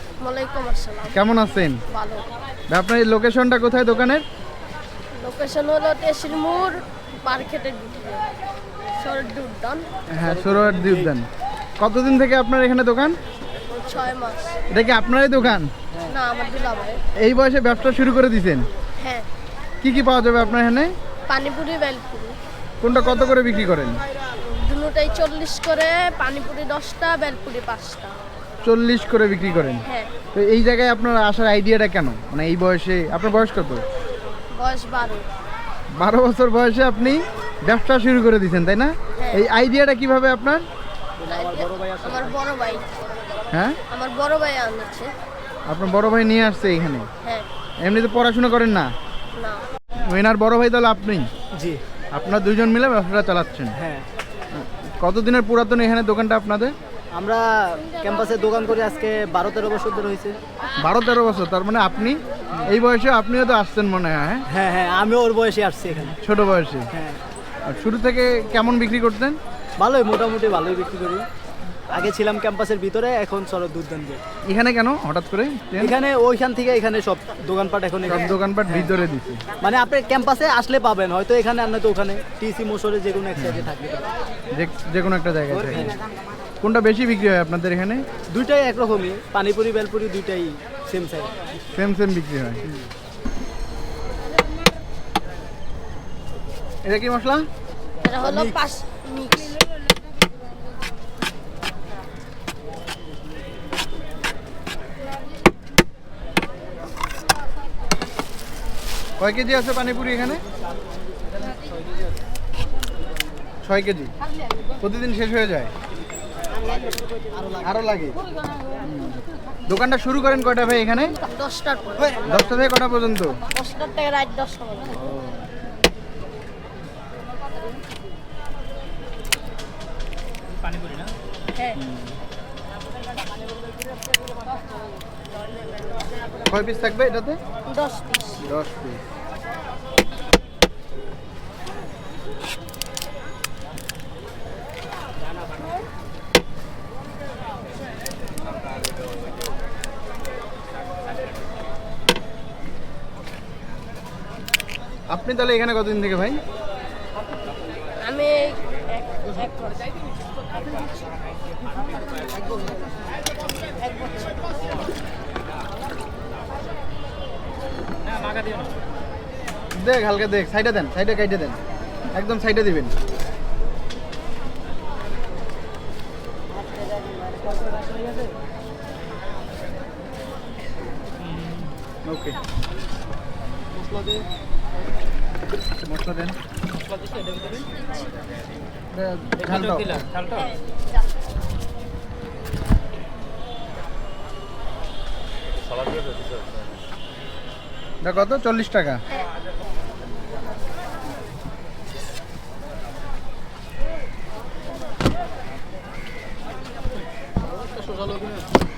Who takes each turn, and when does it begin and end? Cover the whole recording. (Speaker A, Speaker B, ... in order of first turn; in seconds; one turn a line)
Speaker A: 0.2-1.2
Speaker B: 1.1-1.8
Speaker A: 1.9-2.3
Speaker B: 2.7-4.2
Speaker A: 5.2-8.3
Speaker A: 9.0-9.9
Speaker B: 10.1-11.3
Speaker C: 10.2-11.2
Speaker B: 11.8-13.2
Speaker A: 13.8-14.6
Speaker B: 14.7-15.7
Speaker A: 16.1-17.0
Speaker B: 17.1-18.7
Speaker A: 19.0-19.3
Speaker B: 19.8-20.9
Speaker A: 21.3-22.4
Speaker B: 22.8-24.0
Speaker A: 24.4-28.2
Speaker B: 28.6-33.9
Speaker A: 29.9-30.1
Speaker A: 34.5-35.3
Speaker B: 35.9-40.6
Speaker A: 39.2-39.5
Speaker C: 41.2-42.4
Speaker A: 41.3-42.9
Speaker B: 43.5-43.8
Speaker A: 43.9-45.1
Speaker B: 45.7-47.1
Speaker B: 47.8-48.9
Speaker A: 49.4-49.6
Speaker B: 50.0-51.3
Speaker C: 51.5-51.8
Speaker B: 52.1-53.8
Speaker C: 53.7-54.0
Speaker B: 54.5-56.8
Speaker C: 57.1-60.4
Speaker B: 60.8-64.4
Speaker C: 64.5-66.2
Speaker B: 66.1-66.9
Speaker C: 66.9-67.2
Speaker B: 67.7-69.4
Speaker C: 69.8-71.3
Speaker C: 71.9-74.2
Speaker B: 74.5-76.0
Speaker C: 75.8-78.9
Speaker B: 78.0-79.4
Speaker C: 79.6-84.1
Speaker B: 83.4-83.7
Speaker B: 84.5-86.0
Speaker C: 85.5-86.0
Speaker B: 86.6-88.0
Speaker C: 88.3-91.5
Speaker B: 91.7-92.6
Speaker B: 96.8-97.5
Speaker A: 98.0-99.6
Speaker C: 98.2-98.6
Speaker B: 109.2-110.4
Speaker B: 113.7-114.1
Speaker B: 114.8-115.7
Speaker C: 117.3-117.8
Speaker B: 117.6-118.2
Speaker B: 118.8-121.2
Speaker A: 121.2-122.4
Speaker B: 122.2-123.4
Speaker A: 123.5-125.0
Speaker B: 124.9-125.5
Speaker C: 130.8-131.1
Speaker A: 131.5-131.8
Speaker B: 131.8-132.2
Speaker B: 136.5-137.4
Speaker A: 137.7-138.4
Speaker B: 138.4-139.0
Speaker B: 155.1-156.4
Speaker A: 158.0-159.9
Speaker C: 162.3-162.9
Speaker B: 169.7-171.6
Speaker B: 172.1-172.9
Speaker C: 181.3-181.7
Speaker B: 182.1-182.4
Speaker C: 183.7-184.3
Speaker B: 185.8-186.4
Speaker C: 186.8-187.8
Speaker B: 188.9-190.0
Speaker C: 189.6-190.3
Speaker A: 190.3-190.6
Speaker B: 198.0-199.0
Speaker C: 207.4-208.5